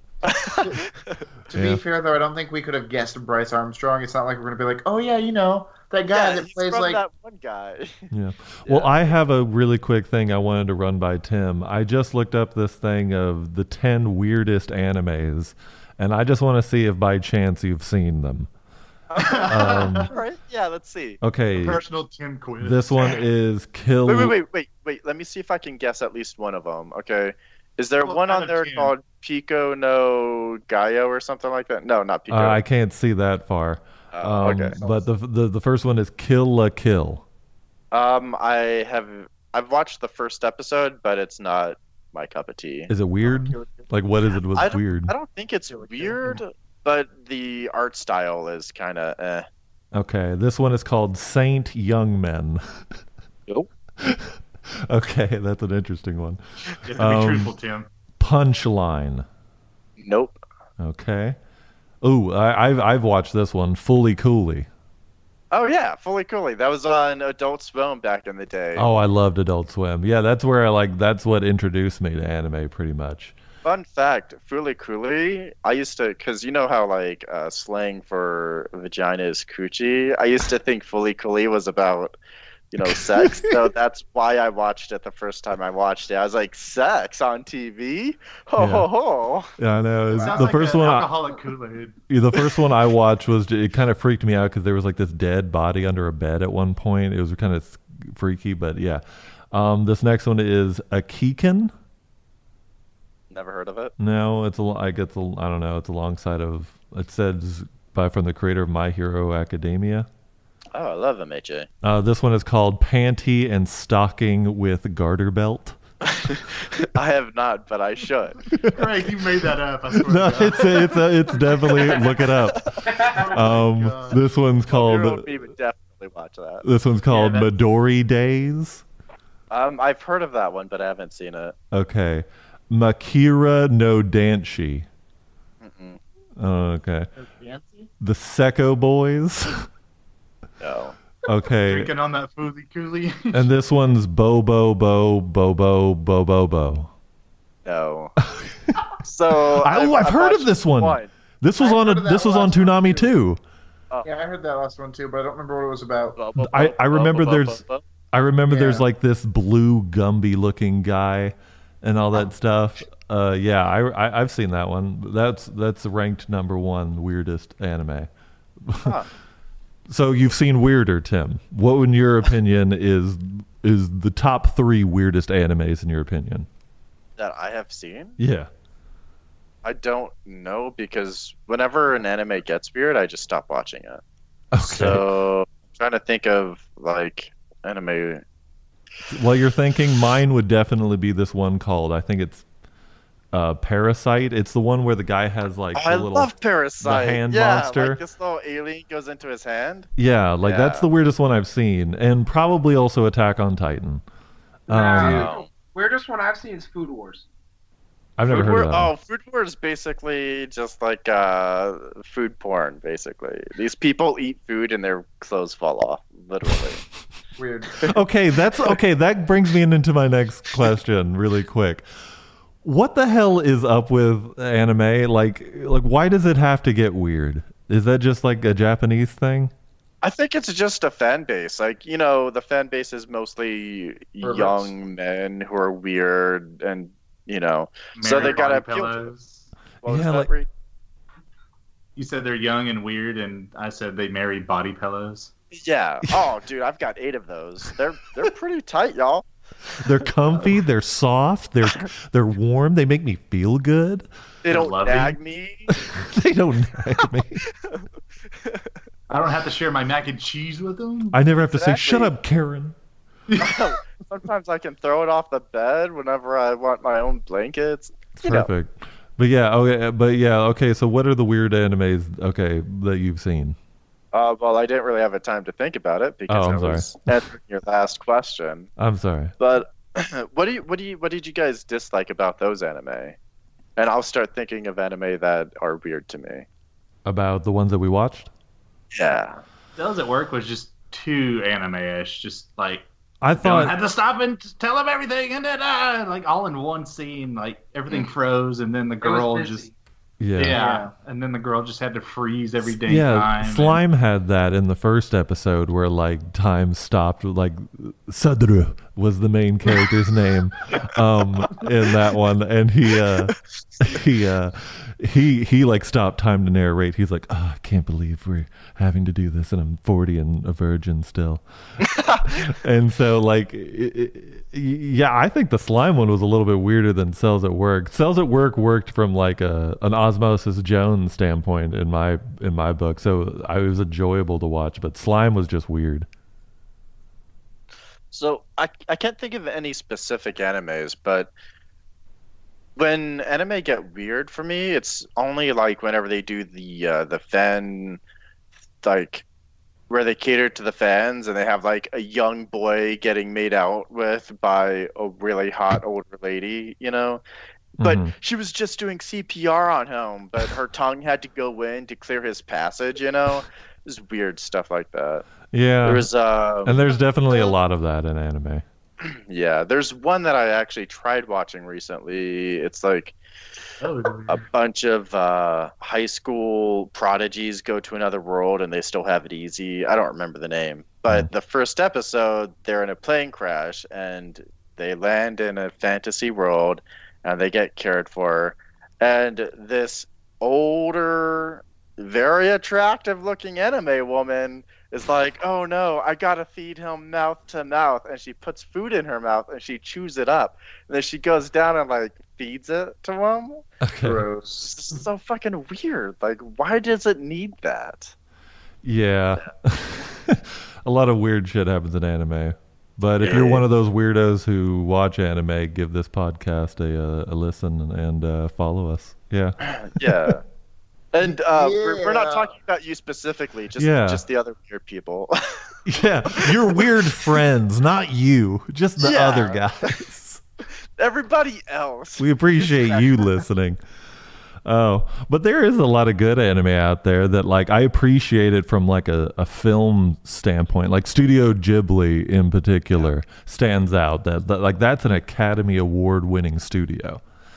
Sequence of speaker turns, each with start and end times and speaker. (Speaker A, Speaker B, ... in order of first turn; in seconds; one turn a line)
Speaker A: 0.2-1.2
Speaker B: 1.5-7.0
Speaker C: 1.5-1.8
Speaker A: 6.1-8.1
Speaker C: 8.1-18.5
Speaker A: 8.7-9.2
Speaker A: 19.1-21.2
Speaker D: 19.2-20.1
Speaker C: 19.5-20.1
Speaker C: 21.2-21.8
Speaker D: 21.6-23.2
Speaker C: 22.6-24.4
Speaker A: 24.1-32.6
Speaker D: 28.0-28.9
Speaker C: 32.3-37.2
Speaker A: 34.1-34.8
Speaker B: 34.8-35.0
Speaker A: 37.9-42.9
Speaker C: 42.9-45.1
Speaker B: 43.2-43.9
Speaker A: 44.5-49.5
Speaker B: 45.7-46.4
Speaker C: 49.9-52.6
Speaker C: 54.0-57.5
Speaker D: 56.8-57.9
Speaker C: 58.2-59.3
Speaker A: 60.0-60.4
Speaker C: 60.8-61.4
Speaker C: 62.0-64.7
Speaker A: 65.5-68.9
Speaker C: 68.8-73.3
Speaker A: 73.6-82.2
Speaker A: 82.7-89.5
Speaker C: 82.8-83.6
Speaker C: 88.6-88.9
Speaker C: 89.6-91.2
Speaker B: 90.1-90.9
Speaker D: 90.2-92.0
Speaker C: 92.1-101.7
Speaker A: 103.3-103.9
Speaker C: 104.0-110.1
Speaker A: 110.7-111.7
Speaker C: 111.8-115.8
Speaker A: 116.0-118.4
Speaker C: 118.5-125.4
Speaker D: 118.7-121.1
Speaker A: 122.5-123.0
Speaker E: 122.9-123.3
Speaker D: 123.1-124.2
Speaker A: 124.7-126.7
Speaker C: 126.6-128.8
Speaker D: 127.1-127.5
Speaker A: 129.5-131.6
Speaker C: 131.7-134.9
Speaker A: 135.6-136.0
Speaker C: 136.4-137.1
Speaker B: 137.2-137.9
Speaker C: 138.0-139.6
Speaker A: 140.6-141.0
Speaker C: 141.3-141.9
Speaker D: 141.7-143.5
Speaker C: 143.3-146.9
Speaker A: 147.7-148.2
Speaker C: 148.3-148.8
Speaker A: 149.0-151.1
Speaker C: 149.4-153.4
Speaker B: 151.6-153.1
Speaker B: 154.1-156.2
Speaker A: 156.2-157.8
Speaker C: 156.4-168.1
Speaker B: 158.5-158.9
Speaker C: 168.6-169.0
Speaker A: 168.8-169.1
Speaker C: 169.9-176.5
Speaker A: 177.2-178.2
Speaker C: 178.2-178.5
Speaker A: 179.6-184.0
Speaker C: 184.5-185.1
Speaker A: 184.6-188.2
Speaker C: 189.1-192.4
Speaker C: 193.3-198.0
Speaker A: 195.8-199.9
Speaker C: 200.0-204.0
Speaker A: 200.4-200.9
Speaker C: 204.7-205.3
Speaker E: 204.7-207.3
Speaker A: 205.0-205.5
Speaker C: 208.2-208.9
Speaker A: 208.3-216.8
Speaker B: 217.4-217.9
Speaker C: 217.8-221.8
Speaker C: 222.6-229.5
Speaker A: 230.0-239.1
Speaker B: 234.2-234.7
Speaker D: 237.9-239.5
Speaker A: 239.8-240.5
Speaker C: 239.8-240.3
Speaker D: 242.0-245.3
Speaker A: 245.5-249.3
Speaker C: 249.8-254.1
Speaker A: 254.4-255.8
Speaker D: 254.5-255.2
Speaker C: 255.8-257.4
Speaker A: 257.5-257.9
Speaker A: 258.4-258.7
Speaker D: 259.1-261.2
Speaker C: 261.1-262.8
Speaker A: 261.5-262.1
Speaker D: 263.3-263.8
Speaker A: 263.4-268.5
Speaker C: 268.2-273.6
Speaker A: 274.1-278.7
Speaker C: 276.3-277.2
Speaker C: 278.8-279.4
Speaker A: 279.4-283.2
Speaker A: 283.8-286.5
Speaker C: 287.1-288.3
Speaker A: 288.9-289.4
Speaker D: 289.8-292.9
Speaker C: 293.2-293.8
Speaker D: 293.4-299.7
Speaker E: 299.0-299.7
Speaker C: 300.2-300.6
Speaker D: 300.4-303.8
Speaker B: 300.5-300.9
Speaker C: 302.6-321.4
Speaker A: 321.9-322.4
Speaker C: 322.2-336.1
Speaker A: 338.1-341.3
Speaker A: 342.8-348.0
Speaker A: 348.8-349.2
Speaker A: 349.9-357.2
Speaker C: 357.8-358.1
Speaker A: 357.8-365.2
Speaker C: 365.5-366.1
Speaker A: 365.8-366.9
Speaker C: 366.6-368.6
Speaker A: 369.0-373.1
Speaker D: 373.8-374.5
Speaker A: 374.3-403.7
Speaker C: 403.8-404.3
Speaker B: 404.0-404.7
Speaker A: 404.6-408.1
Speaker C: 408.8-420.4
Speaker A: 413.2-413.6
Speaker A: 419.6-420.4
Speaker A: 421.1-425.7
Speaker B: 421.2-422.5
Speaker C: 423.8-424.2
Speaker C: 425.9-430.4
Speaker A: 426.3-426.8
Speaker A: 429.0-430.0
Speaker A: 431.0-433.4
Speaker C: 432.2-433.8
Speaker C: 434.6-447.2